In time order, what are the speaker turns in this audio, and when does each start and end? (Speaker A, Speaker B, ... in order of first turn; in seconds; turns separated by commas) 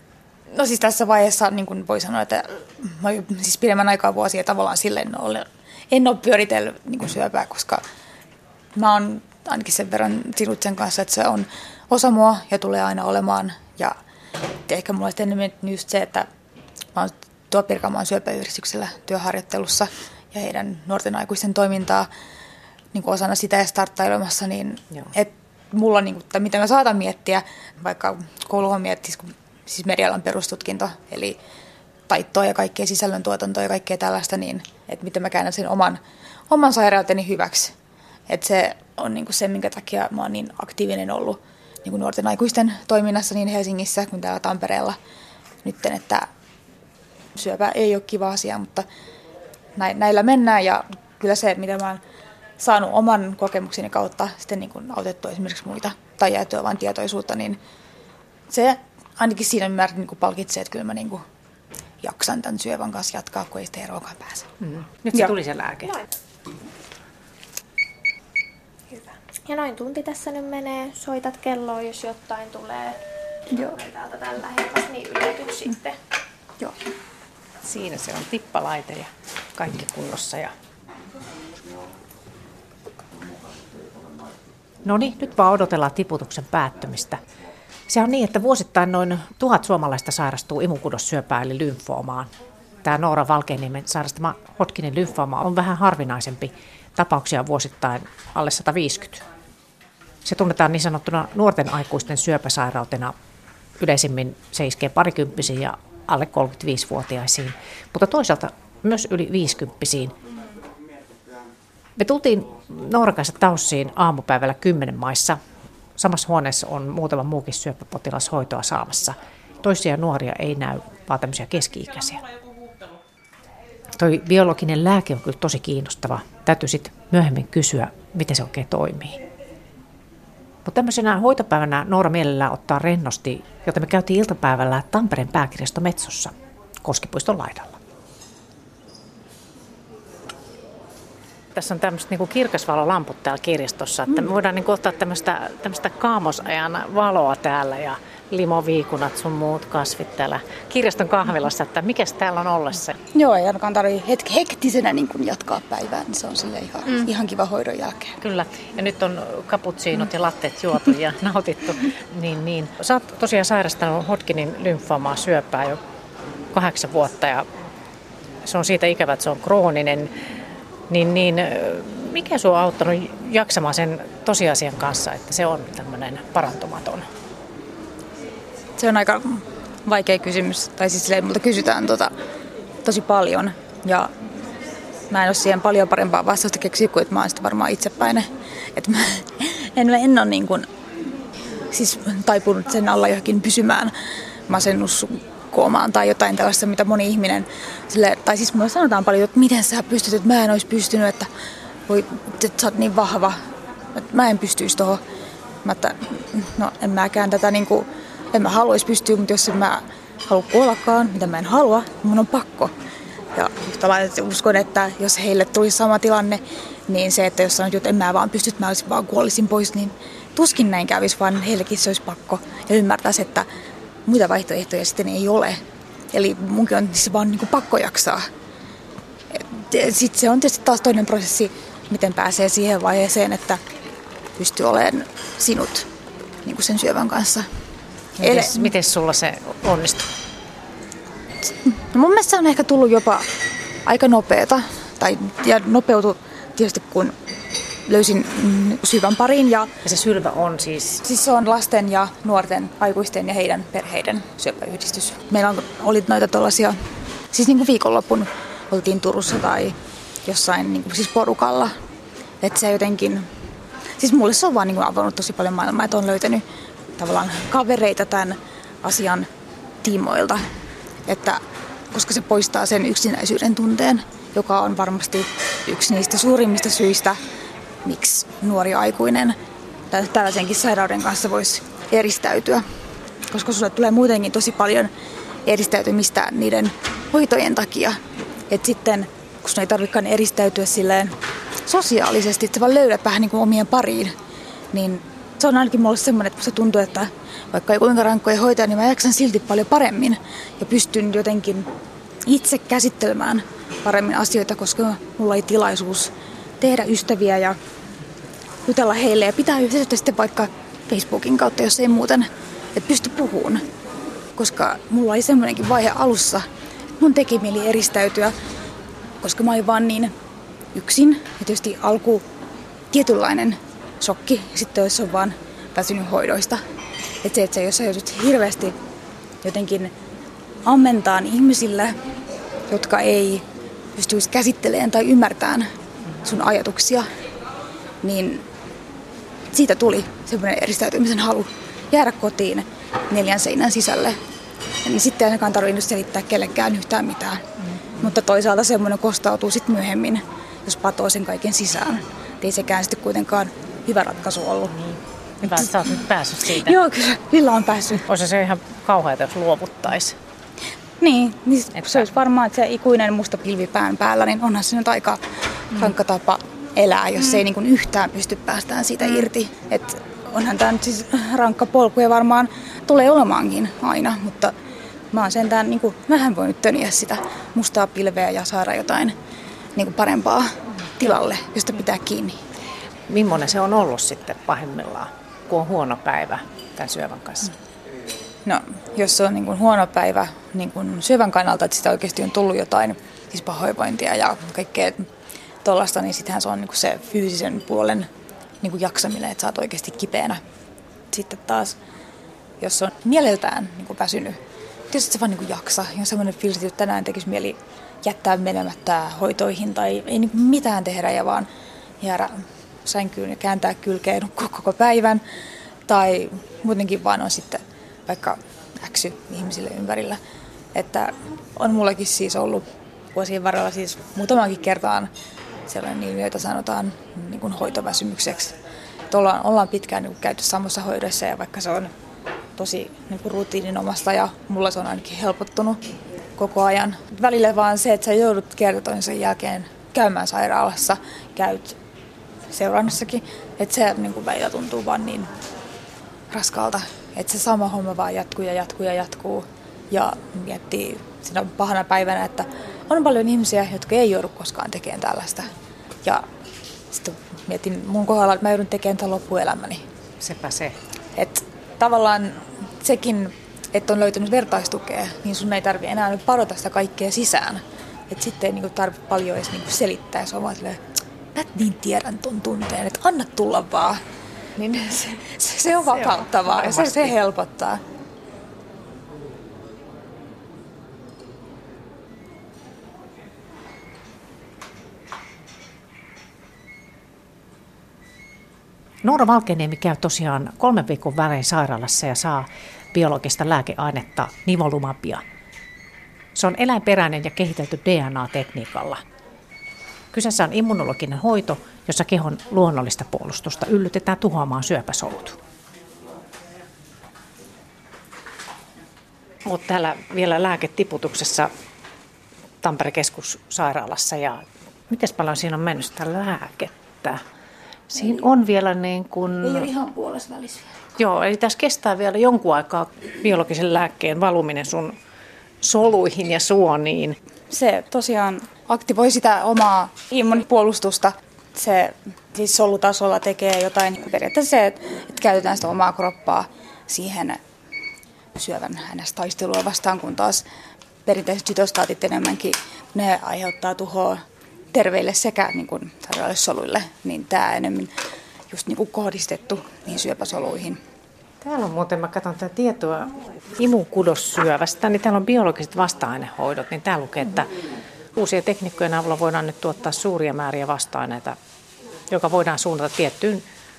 Speaker A: 0.5-7.8, Speaker A: 8.8-14.0, Speaker A: 14.7-16.3, Speaker A: 16.9-22.1, Speaker A: 22.9-31.4, Speaker A: 32.1-37.8, Speaker A: 38.3-45.0, Speaker A: 45.6-46.3, Speaker A: 47.3-48.9, Speaker A: 49.8-52.0, Speaker A: 52.6-57.6, Speaker A: 58.5-61.2, Speaker A: 62.0-64.5, Speaker B: 64.6-65.9, Speaker C: 69.3-73.0, Speaker C: 73.5-76.0, Speaker B: 77.6-80.5, Speaker B: 84.8-87.2, Speaker B: 87.9-92.3, Speaker B: 92.8-99.2, Speaker B: 100.2-103.1, Speaker B: 103.8-110.2, Speaker B: 112.0-115.4, Speaker B: 116.0-122.2, Speaker B: 124.0-129.2, Speaker B: 130.6-137.8, Speaker B: 141.6-153.0, Speaker A: 153.1-158.2, Speaker B: 158.2-165.8, Speaker B: 166.5-167.5, Speaker B: 168.4-170.1, Speaker B: 170.9-177.1, Speaker A: 178.8-182.1, Speaker A: 182.8-184.1, Speaker A: 185.1-190.7, Speaker A: 191.7-201.3, Speaker A: 201.9-203.4, Speaker A: 203.9-205.0, Speaker A: 205.6-212.7, Speaker A: 213.3-223.5, Speaker A: 224.1-225.6, Speaker A: 226.1-228.3, Speaker A: 229.3-233.6, Speaker A: 234.4-235.9, Speaker A: 236.4-237.5, Speaker B: 238.2-240.1, Speaker A: 238.2-238.7, Speaker A: 241.4-247.2, Speaker A: 247.9-249.7, Speaker B: 249.8-251.0, Speaker A: 251.0-256.8, Speaker A: 257.3-261.7, Speaker A: 262.4-263.3, Speaker A: 264.0-266.4, Speaker A: 267.0-269.3, Speaker A: 269.8-270.4, Speaker A: 271.1-271.4, Speaker A: 271.9-277.2, Speaker A: 277.8-279.4, Speaker A: 279.9-282.6, Speaker A: 283.3-284.9, Speaker A: 285.5-294.1, Speaker A: 294.7-301.6, Speaker A: 302.2-307.6, Speaker A: 308.6-313.6, Speaker A: 314.4-316.5, Speaker A: 317.0-318.3, Speaker A: 319.2-320.1, Speaker A: 320.7-322.2, Speaker A: 322.9-326.6, Speaker A: 327.2-328.8, Speaker A: 329.4-329.9, Speaker A: 330.6-332.0, Speaker A: 332.7-335.7, Speaker A: 336.2-337.1, Speaker A: 338.0-338.5, Speaker A: 339.5-344.2, Speaker A: 344.8-354.8, Speaker B: 354.8-356.8, Speaker A: 356.4-358.1, Speaker B: 358.1-360.2, Speaker A: 361.0-374.5, Speaker B: 361.8-362.1, Speaker A: 375.1-379.1, Speaker A: 379.8-382.4, Speaker B: 383.1-387.5, Speaker A: 388.4-395.1, Speaker A: 395.6-398.1, Speaker A: 398.6-400.4, Speaker A: 401.1-401.8, Speaker A: 402.6-411.5, Speaker A: 412.0-415.2, Speaker A: 415.9-420.2, Speaker A: 420.7-425.1, Speaker A: 425.7-428.6, Speaker A: 429.1-431.9, Speaker A: 432.6-435.8, Speaker A: 436.4-441.8, Speaker A: 442.5-445.3, Speaker A: 446.3-455.5, Speaker A: 456.9-459.9, Speaker B: 460.2-460.8, Speaker A: 461.1-474.0, Speaker A: 474.6-477.8, Speaker B: 475.9-477.1, Speaker B: 489.0-495.2, Speaker B: 496.4-499.0, Speaker B: 500.1-505.4, Speaker B: 509.5-511.5, Speaker B: 512.6-517.2, Speaker B: 517.9-519.7, Speaker A: 519.4-520.7, Speaker B: 521.0-525.0, Speaker B: 525.6-527.2, Speaker A: 527.5-537.4, Speaker A: 538.4-540.5, Speaker A: 541.0-544.2, Speaker A: 544.7-547.9, Speaker A: 548.5-550.8, Speaker B: 551.4-557.5, Speaker B: 558.1-561.4, Speaker B: 562.1-563.5